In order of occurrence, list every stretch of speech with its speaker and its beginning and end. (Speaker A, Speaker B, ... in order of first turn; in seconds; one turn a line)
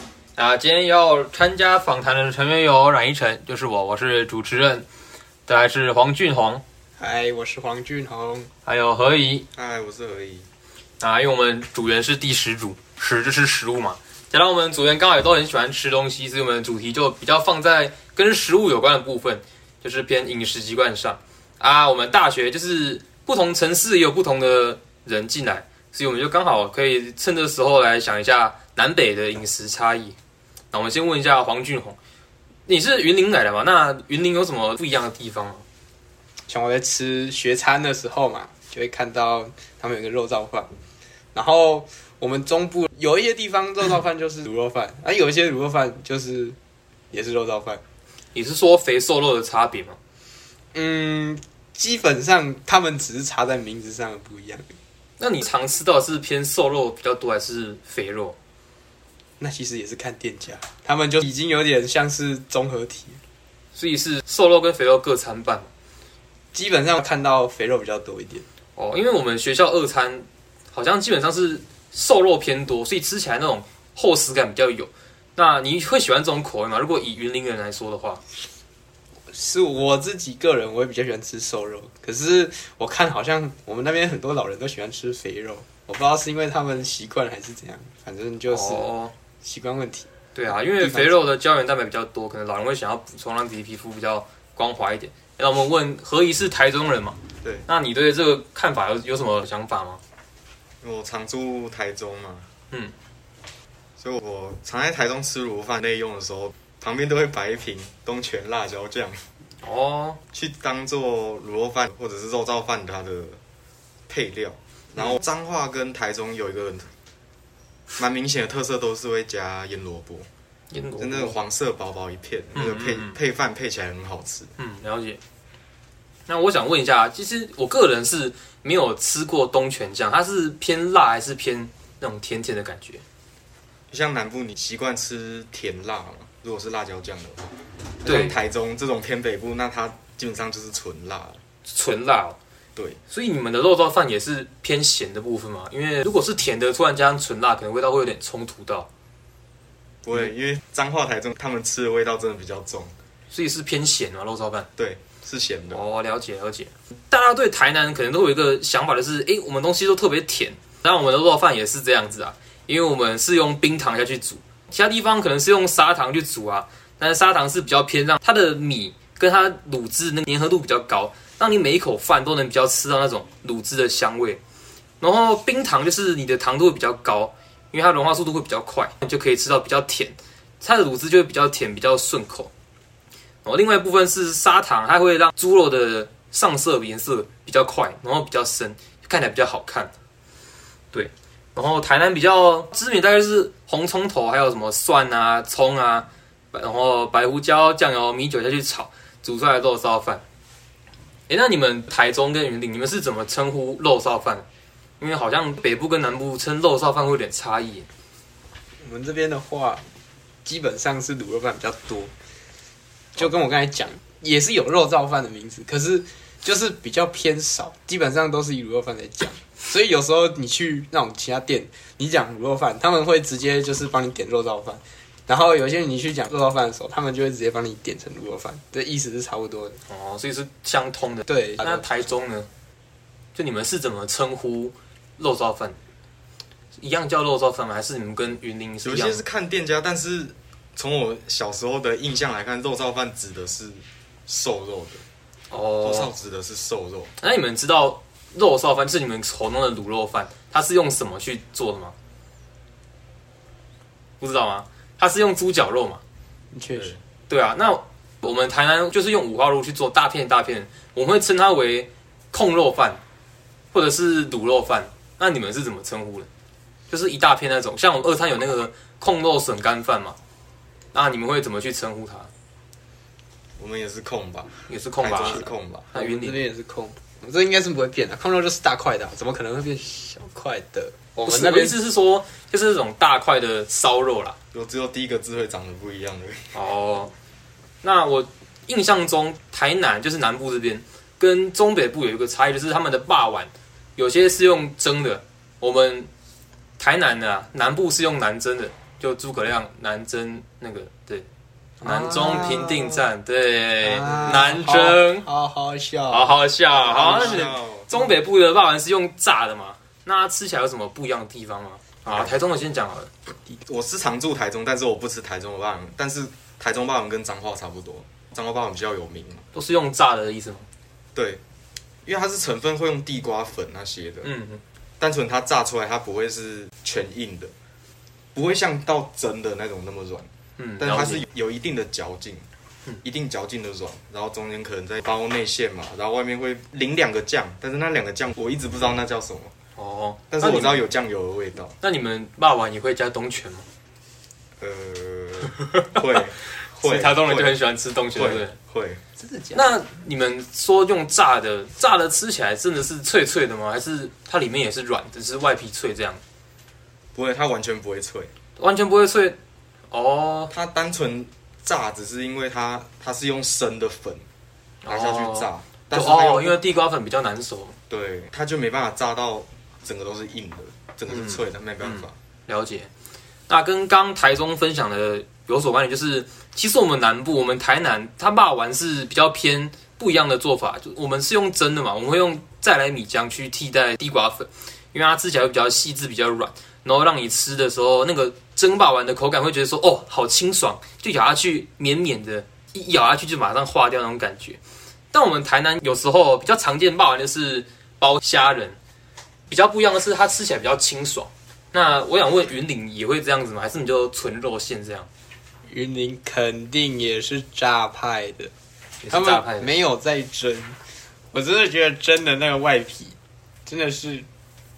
Speaker A: 0.4-4.9
Speaker A: 5.5-6.6
Speaker B: 7.0-8.5
Speaker A: 8.7-9.5
Speaker C: 9.5-10.5
Speaker A: 11.0-30.2
Speaker A: 30.7-32.0
Speaker A: 32.7-35.6
Speaker B: 36.5-40.7
Speaker B: 41.3-46.6
Speaker B: 47.1-47.8
Speaker A: 48.3-50.0
Speaker B: 50.7-54.8
Speaker A: 55.2-58.4
Speaker B: 59.4-63.2
Speaker A: 63.7-65.7
Speaker B: 66.5-68.5
Speaker A: 68.8-78.2
Speaker B: 79.3-88.9
Speaker A: 88.5-89.1
Speaker B: 89.4-90.1
Speaker A: 90.3-100.0
Speaker B: 90.8-91.2
Speaker C: 97.4-97.7
Speaker C: 100.8-102.5
Speaker C: 104.0-109.2
Speaker A: 109.6-110.2
Speaker C: 110.3-113.4
Speaker C: 114.1-116.9
Speaker C: 118.0-120.3
Speaker A: 120.7-121.4
Speaker C: 121.0-124.5
Speaker A: 122.5-123.2
Speaker A: 124.6-125.2
Speaker A: 126.3-133.0
Speaker C: 133.9-141.4
Speaker A: 138.1-138.4
Speaker A: 141.7-142.4
Speaker A: 143.1-148.9
Speaker C: 150.0-152.9
Speaker A: 153.3-154.7
Speaker C: 154.8-155.8
Speaker A: 155.7-174.4
Speaker A: 175.0-182.5
Speaker A: 183.4-189.9
Speaker A: 190.9-200.2
Speaker A: 201.3-204.4
Speaker A: 205.0-207.9
Speaker B: 208.8-209.8
Speaker B: 210.4-212.1
Speaker B: 213.2-229.8
Speaker A: 229.9-232.5
Speaker B: 231.3-231.9
Speaker A: 233.3-235.8
Speaker A: 236.8-239.2
Speaker C: 238.8-245.0
Speaker A: 245.5-246.1
Speaker C: 245.8-247.1
Speaker A: 247.2-251.9
Speaker A: 254.2-256.0
Speaker B: 256.5-257.0
Speaker A: 257.3-263.0
Speaker A: 263.7-266.3
Speaker A: 266.9-270.2
Speaker A: 270.9-272.3
Speaker C: 273.6-275.9
Speaker A: 274.7-276.4
Speaker B: 275.9-281.8
Speaker A: 281.2-284.4
Speaker C: 284.5-286.5
Speaker A: 286.5-287.1
Speaker A: 287.8-296.1
Speaker A: 296.8-301.3
Speaker B: 301.8-303.1
Speaker A: 301.8-305.3
Speaker B: 303.8-307.4
Speaker A: 306.1-313.1
Speaker C: 306.7-308.0
Speaker C: 312.1-312.4
Speaker C: 313.6-319.4
Speaker A: 319.5-320.7
Speaker C: 321.1-321.4
Speaker C: 322.1-324.3
Speaker A: 324.2-324.6
Speaker C: 325.0-327.5
Speaker C: 328.4-330.3
Speaker A: 330.6-331.2
Speaker C: 330.8-332.4
Speaker C: 333.0-339.5
Speaker A: 339.8-340.8
Speaker C: 340.3-341.8
Speaker A: 341.8-343.7
Speaker C: 344.6-347.6
Speaker A: 346.8-348.6
Speaker C: 348.1-349.0
Speaker B: 349.2-349.7
Speaker A: 349.5-356.2
Speaker C: 357.1-358.3
Speaker A: 358.6-359.4
Speaker A: 359.9-360.5
Speaker C: 360.5-364.2
Speaker A: 364.9-367.8
Speaker C: 364.9-366.6
Speaker C: 367.9-372.1
Speaker A: 371.1-372.9
Speaker A: 373.5-394.6
Speaker A: 395.1-398.8
Speaker A: 399.5-405.1
Speaker B: 405.7-408.5
Speaker A: 409.0-409.7
Speaker B: 409.1-410.8
Speaker B: 411.3-414.3